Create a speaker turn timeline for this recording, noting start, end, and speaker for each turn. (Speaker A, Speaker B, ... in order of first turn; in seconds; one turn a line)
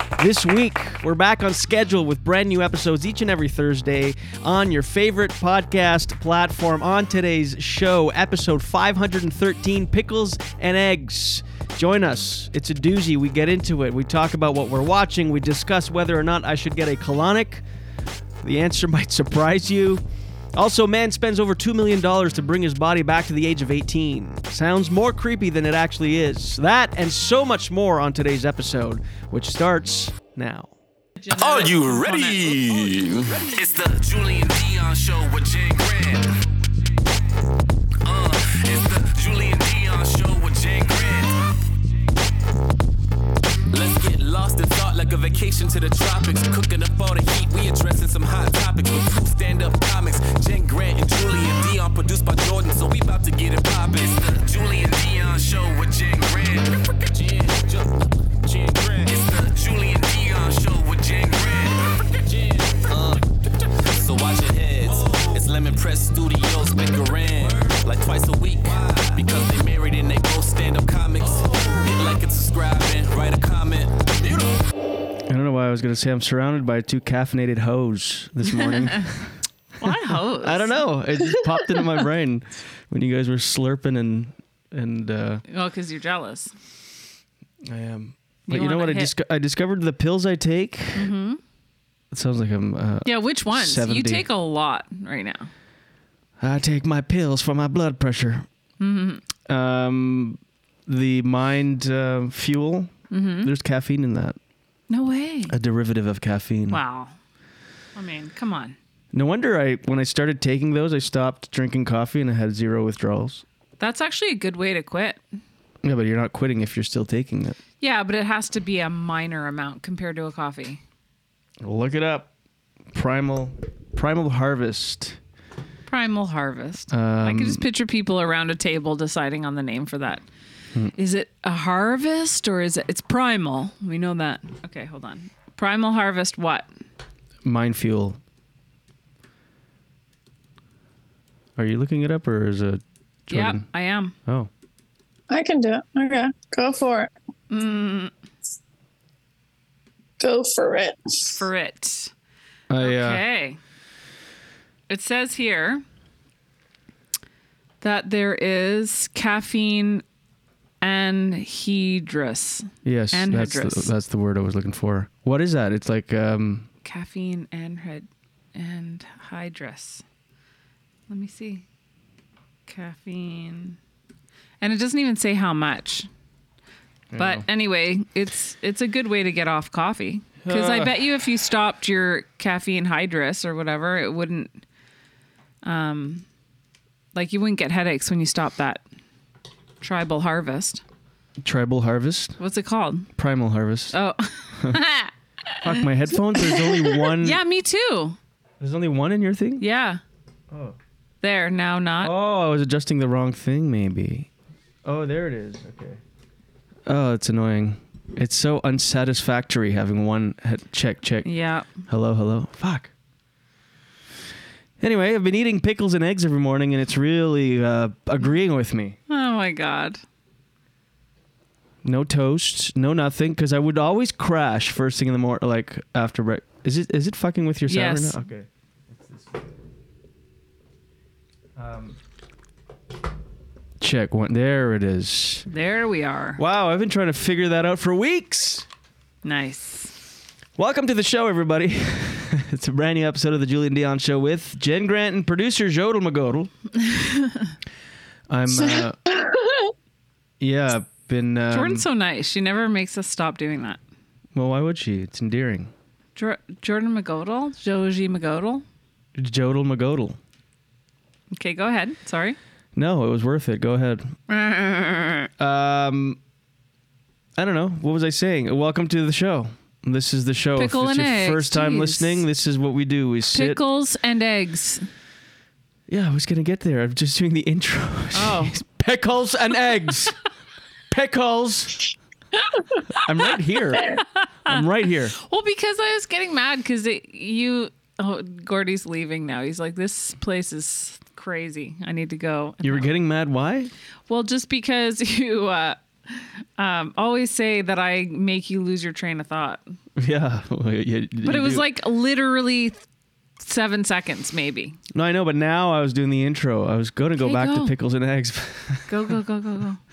Speaker A: 0.2-17.6
Speaker A: 18.4-20.0
Speaker A: 20.5-30.7
Speaker B: 31.2-33.5
Speaker C: 31.3-36.4
Speaker C: 38.0-41.4
Speaker C: 43.7-74.6
Speaker A: 75.3-85.4
Speaker B: 78.6-79.0
Speaker B: 79.8-80.8
Speaker B: 85.5-86.5
Speaker A: 87.6-91.1
Speaker B: 88.5-89.1
Speaker B: 90.9-91.4
Speaker A: 92.1-94.2
Speaker B: 93.0-95.5
Speaker A: 96.4-98.5
Speaker B: 98.8-99.2
Speaker A: 99.5-104.3
Speaker B: 103.1-103.5
Speaker B: 104.9-105.5
Speaker A: 105.5-106.8
Speaker B: 106.7-107.1
Speaker B: 108.0-108.8
Speaker A: 109.1-113.4
Speaker B: 113.8-115.2
Speaker A: 115.8-117.6
Speaker B: 117.8-120.8
Speaker A: 121.6-122.3
Speaker A: 122.9-125.2
Speaker B: 125.9-130.2
Speaker A: 126.9-127.6
Speaker B: 130.9-136.7
Speaker A: 137.4-138.2
Speaker A: 141.6-143.6
Speaker B: 143.3-144.1
Speaker D: 145.3-147.1
Speaker B: 147.5-148.1
Speaker D: 150.2-151.4
Speaker B: 151.3-152.1
Speaker A: 152.7-153.2
Speaker B: 152.8-153.6
Speaker B: 154.9-155.8
Speaker B: 157.8-160.0
Speaker B: 160.8-163.9
Speaker A: 162.8-166.7
Speaker B: 166.8-170.0
Speaker B: 171.1-171.6
Speaker B: 172.7-173.8
Speaker B: 174.6-176.1
Speaker A: 177.1-177.4
Speaker B: 177.2-184.5
Speaker A: 180.4-180.9
Speaker B: 185.6-186.2
Speaker B: 187.1-188.8
Speaker B: 189.8-190.8
Speaker A: 191.4-192.3
Speaker B: 192.4-193.1
Speaker A: 193.2-193.9
Speaker B: 193.9-195.9
Speaker A: 195.6-197.4
Speaker B: 196.4-198.2
Speaker A: 198.6-199.6
Speaker B: 199.6-200.0
Speaker A: 200.5-200.8
Speaker B: 201.2-202.1
Speaker A: 202.0-204.3
Speaker A: 204.8-206.0
Speaker A: 206.8-211.3
Speaker B: 211.2-211.7
Speaker A: 211.9-212.9
Speaker A: 214.8-219.0
Speaker B: 219.1-220.0
Speaker A: 221.8-229.5
Speaker B: 227.7-228.2
Speaker A: 231.6-232.0
Speaker A: 233.8-235.5
Speaker B: 235.5-236.4
Speaker A: 236.3-238.7
Speaker B: 239.2-239.9
Speaker A: 240.6-246.5
Speaker B: 246.8-247.5
Speaker A: 248.3-249.0
Speaker D: 248.6-249.7
Speaker A: 250.4-251.8
Speaker B: 251.5-253.8
Speaker A: 254.3-255.7
Speaker B: 256.1-258.6
Speaker A: 259.2-260.2
Speaker B: 261.3-262.4
Speaker A: 262.7-264.1
Speaker B: 264.3-265.3
Speaker A: 265.4-266.2
Speaker A: 267.4-273.6
Speaker B: 270.6-272.2
Speaker B: 273.3-274.9
Speaker A: 275.9-280.2
Speaker B: 278.1-278.6
Speaker A: 280.9-281.9
Speaker A: 282.9-285.1
Speaker B: 283.9-292.9
Speaker A: 292.6-293.7
Speaker B: 294.1-299.6
Speaker A: 299.9-301.6
Speaker B: 301.2-302.8
Speaker B: 303.4-304.8
Speaker A: 304.9-309.2
Speaker B: 307.2-307.7
Speaker B: 308.9-309.8